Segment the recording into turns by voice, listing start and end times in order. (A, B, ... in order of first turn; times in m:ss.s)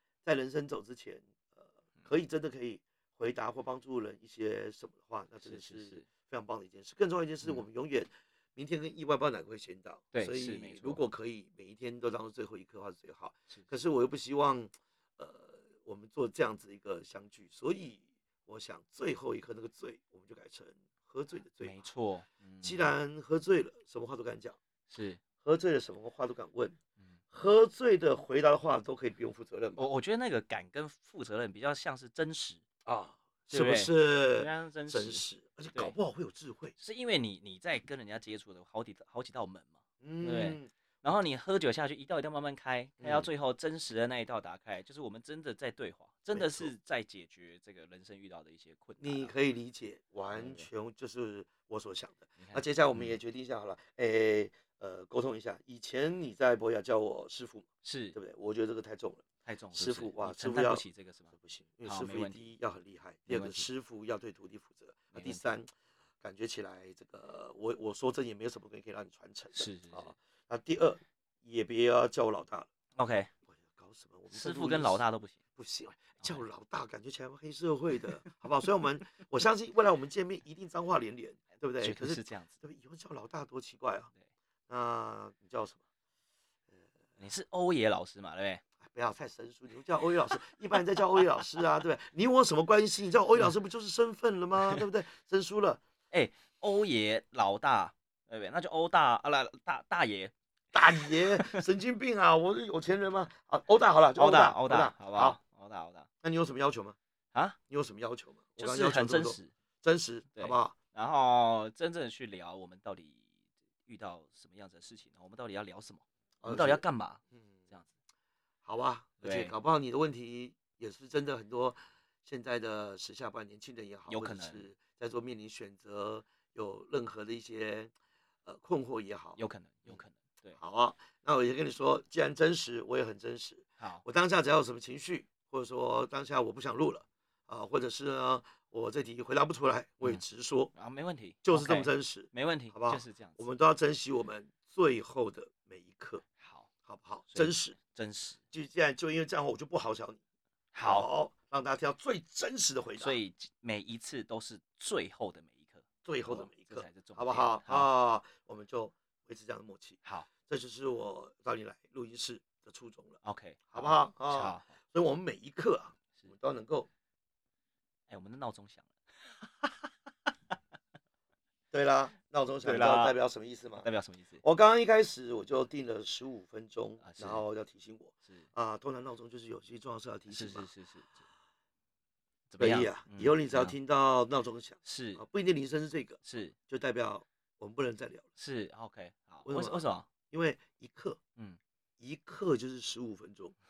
0:00.2-0:21.9 A
0:05.4-0:06.1 B
0:07.4-0:07.7 B
0:10.1-0:11.0 B
0:21.6-0:22.9 B
0:22.6-0:24.6 A
0:24.9-0:25.2 B
0:25.4-0:26.8 A
0:27.3-0:29.8 A
0:29.8-0:32.6 B
0:32.8-0:36.7 A
0:33.5-0:36.0 B
0:36.8-0:49.4 B
0:40.0-0:40.7 A
0:43.0-0:43.3 A
0:46.3-0:46.7 A
0:49.0-1:12.7 A
0:50.3-0:50.7 B
0:52.4-0:53.2 B
0:57.8-0:58.2 B
0:59.4-1:01.3 B
1:01.8-1:02.5 B
1:03.3-1:03.7 B
1:05.1-1:05.5 B
1:09.5-1:10.1 B
1:13.0-1:13.3 B
1:13.5-1:15.0 A
1:14.3-1:15.4 B
1:15.6-1:24.1 A
1:16.0-1:16.5 B
1:21.8-1:22.6 B
1:24.7-1:25.8 A
1:27.2-1:28.7 B
1:28.8-1:35.8 A
1:34.6-1:34.9 B
1:36.1-1:40.3 B
1:40.7-1:45.4 A
1:40.9-1:41.6 B
1:44.2-1:46.1 B
1:46.2-1:47.0 A
1:47.3-1:47.6 B
1:47.7-1:50.8 A
1:48.6-1:49.5 B
1:50.4-1:53.3 B
1:53.9-1:57.2 B
1:56.4-1:56.8 A
1:58.6-2:07.9 A
1:59.2-1:59.6 B
2:04.1-2:04.7 B
2:08.4-2:10.0 A
2:09.4-2:10.6 B
2:10.6-2:20.7 A
2:13.8-2:14.0 B
2:20.0-2:23.6 B
2:21.4-2:26.2 A
2:26.3-2:26.7 B
2:26.8-2:27.8 A
2:27.3-2:28.4 B
2:28.5-2:30.2 A
2:30.7-2:31.1 B
2:30.8-2:33.2 A
2:33.0-2:37.9 B
2:36.0-2:43.2 A
2:40.0-2:40.4 B
2:43.2-2:44.8 B
2:43.7-2:46.9 A
2:48.1-2:48.9 B
2:51.7-2:53.9 A
2:52.6-2:53.2 B
2:53.8-2:54.4 B
2:54.4-3:00.7 A
2:57.0-2:57.4 B
3:00.3-3:01.2 B
3:02.5-3:03.8 B
3:02.6-3:08.3 A
3:04.8-3:05.2 B
3:06.2-3:06.6 B
3:08.4-3:10.1 B
3:09.4-3:11.2 A
3:12.0-3:13.6 A